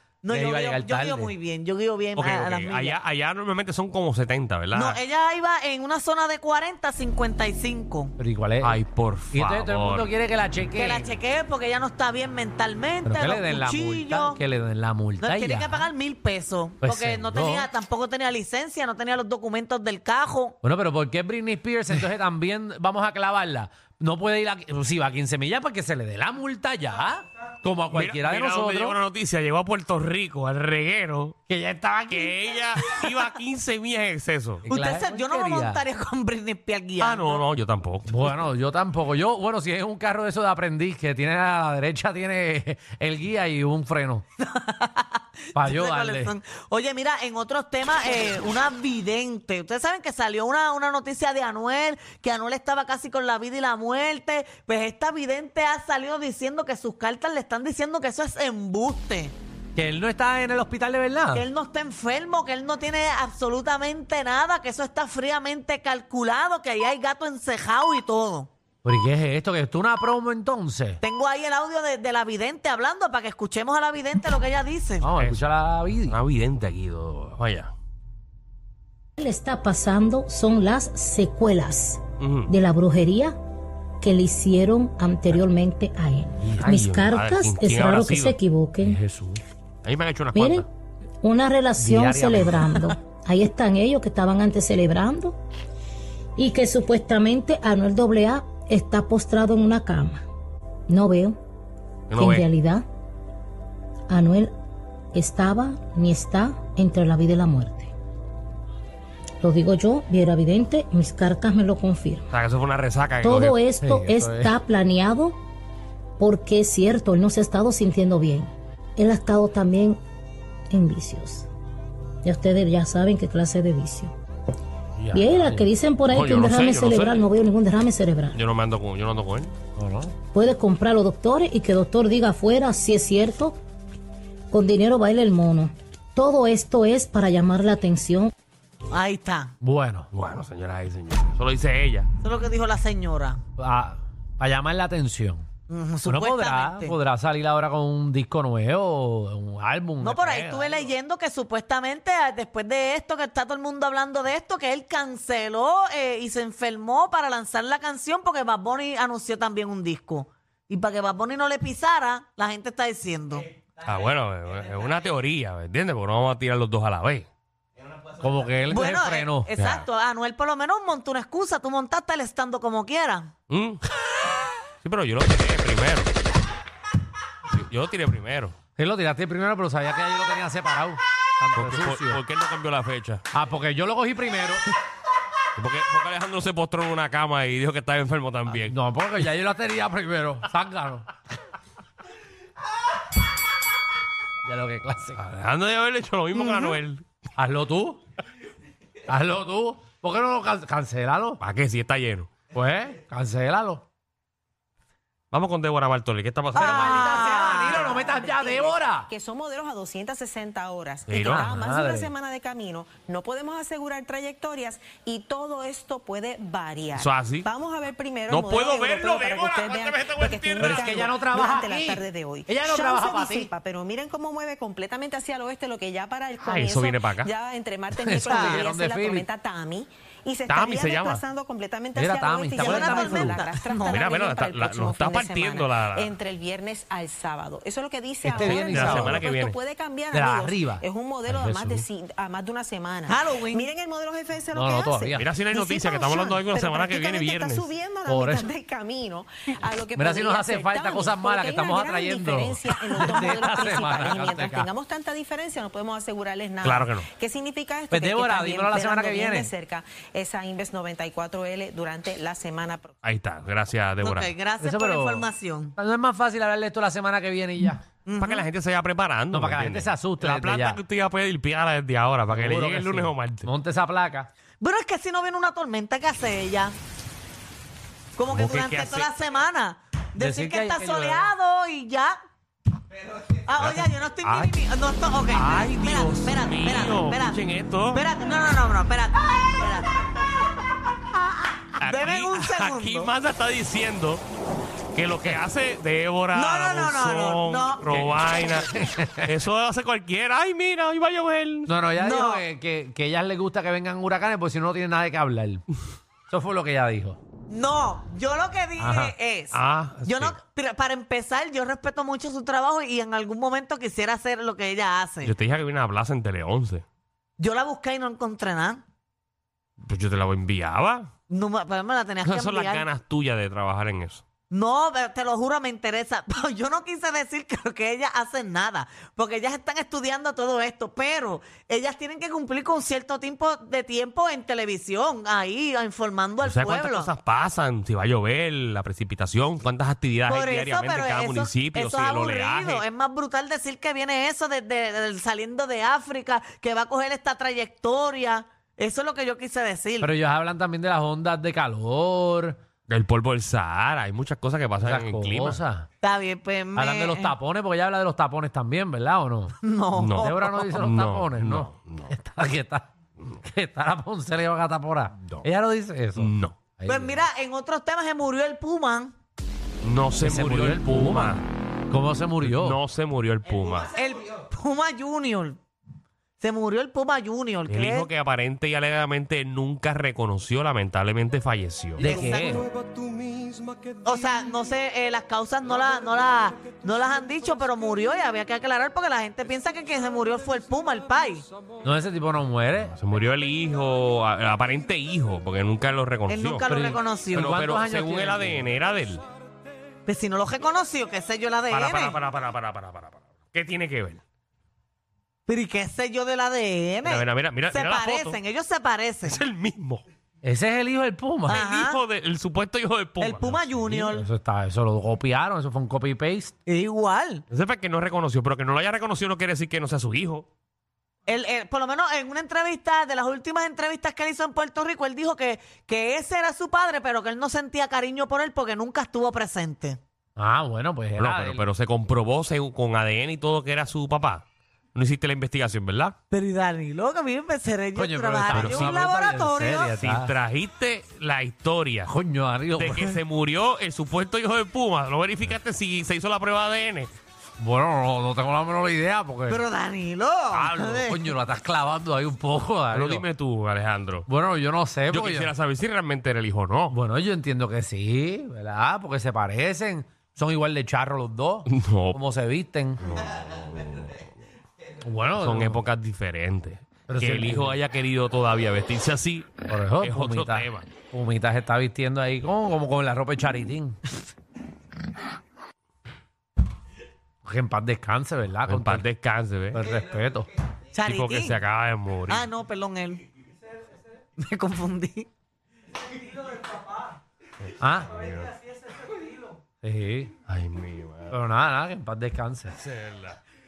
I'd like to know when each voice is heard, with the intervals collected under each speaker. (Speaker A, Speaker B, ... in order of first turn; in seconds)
Speaker A: 0.2-3.0, 4.7-8.1, 10.8-14.4, 15.2-20.6, 34.7-37.5, 44.4-59.4, 61.3-68.5, 71.0-75.1, 138.9-139.5, 142.2-143.4, 145.7-147.0, 150.0-163.4, 168.7-173.3, 206.6-208.0, 228.2-228.7, 232.5-234.2, 243.1-243.7, 264.0-265.8, 268.1-268.5, 274.6-276.8, 278.2-282.1, 283.3-289.9, 291.8-293.1, 296.3-298.0, 302.0-302.4, 307.5-315.3, 317.4-318.8, 321.3-322.9, 324.5-337.1, 340.3-350.2, 356.0-357.4, 359.6-360.6, 366.9-369.1, 373.9-375.6, 376.4-378.1, 382.0-382.6, 384.0-391.5, 396.3-397.5, 400.1-402.2, 405.5-409.4, 411.5-412.0, 413.2-414.3, 416.7-417.4, 421.3-430.0, 436.3-439.9, 449.5-451.3, 480.9-481.6, 482.3-483.2, 484.4-485.3
Speaker B: 0.3-1.3, 8.2-8.8, 9.3-11.2, 13.1-15.9, 16.8-17.7, 20.6-29.0, 31.5-32.4, 34.6-35.8, 38.1-44.2, 45.5-46.4, 59.8-61.5, 68.8-71.0, 75.0-76.2, 86.4-87.0, 88.8-89.4, 91.8-92.9, 113.8-114.6, 125.0-125.7, 129.8-130.2, 139.6-140.1, 143.6-145.5, 146.1-150.8, 168.2-169.5, 178.8-182.2, 183.3-184.7, 188.6-191.1, 194.4-195.2, 197.4-198.0, 199.0-201.4, 202.5-203.8, 206.5-209.1, 211.1-212.1, 220.6-223.5, 228.0-229.3, 231.9-233.4, 238.2-239.3, 240.1-241.8, 244.5-245.4, 248.1-248.5, 249.9-254.7, 257.9-259.5, 264.6-267.8, 269.3-270.8, 272.3-274.3, 280.2-281.3, 298.8-299.3, 301.7-305.7, 306.3-307.2, 308.8-309.1, 350.0-352.6, 354.8-355.9, 356.8-359.5, 360.2-362.9, 363.4-367.2, 370.2-371.4, 371.9-372.8, 382.0-382.7, 391.8-392.9, 396.7-398.8, 410.4-411.6, 413.9-416.5, 430.4-431.7, 437.9-440.3, 442.1-443.2, 447.6-449.6, 450.5-453.3, 454.3-455.5, 456.9-463.0, 465.0-465.8, 467.1-467.8, 469.7-474.0, 477.4-479.1, 479.7-480.5, 487.8-488.2, 489.8-490.3, 491.3-492.8
Speaker C: 2.1-5.0, 8.6-10.1, 27.9-31.4, 32.1-34.6, 37.0-38.1, 75.2-75.5, 76.0-77.7, 82.2-82.5, 86.6-88.4, 89.8-90.7, 102.1-102.5, 112.3-113.6, 126.1-127.3, 128.3-129.5, 140.1-142.1, 163.8-167.3, 169.6-169.9, 173.5-173.8, 174.8-176.1, 177.5-178.6, 181.6-183.2, 185.6-188.8, 195.2-197.1, 201.4-202.3, 205.3-207.1, 211.1-211.5, 216.9-217.5, 218.3-221.1, 226.4-227.3, 230.5-231.2, 233.8-236.2, 238.3-239.6, 245.2-247.7, 256.6-257.1, 263.0-264.3, 268.2-273.5, 278.3-279.1, 283.6-283.9, 285.3-288.0, 291.8-294.2, 294.9-301.7, 309.5-310.4, 315.2-316.8, 319.8-321.1, 322.2-324.2, 336.4-342.8, 352.9-355.6, 360.0-362.1, 366.2-366.6, 369.8-371.5, 372.4-373.9, 377.7-382.2, 393.0-396.7, 397.3-399.2, 401.7-404.2, 407.0-408.4, 409.2-410.0, 411.5-413.8, 417.5-420.5, 431.2-434.4, 434.9-436.1, 438.5-439.1, 440.0-442.1, 442.8-447.1, 452.9-454.3, 455.1-457.0, 461.7-462.2, 463.0-464.3, 465.4-470.9, 478.7-479.8, 481.0-482.5, 488.1-488.6, 490.5-491.4, 492.8-493.4
Speaker D: 79.2-83.3, 84.0-89.0, 90.3-90.7, 91.2-95.4, 96.4-100.2, 100.9-101.4, 102.1-102.8, 104.1-104.5, 105.1-107.9, 109.4-112.2, 113.2-115.4, 116.2-120.0, 120.7-121.5, 122.2-124.1, 125.1-128.4, 130.3-133.6, 134.5-138.3
Speaker E: 207.1-262.9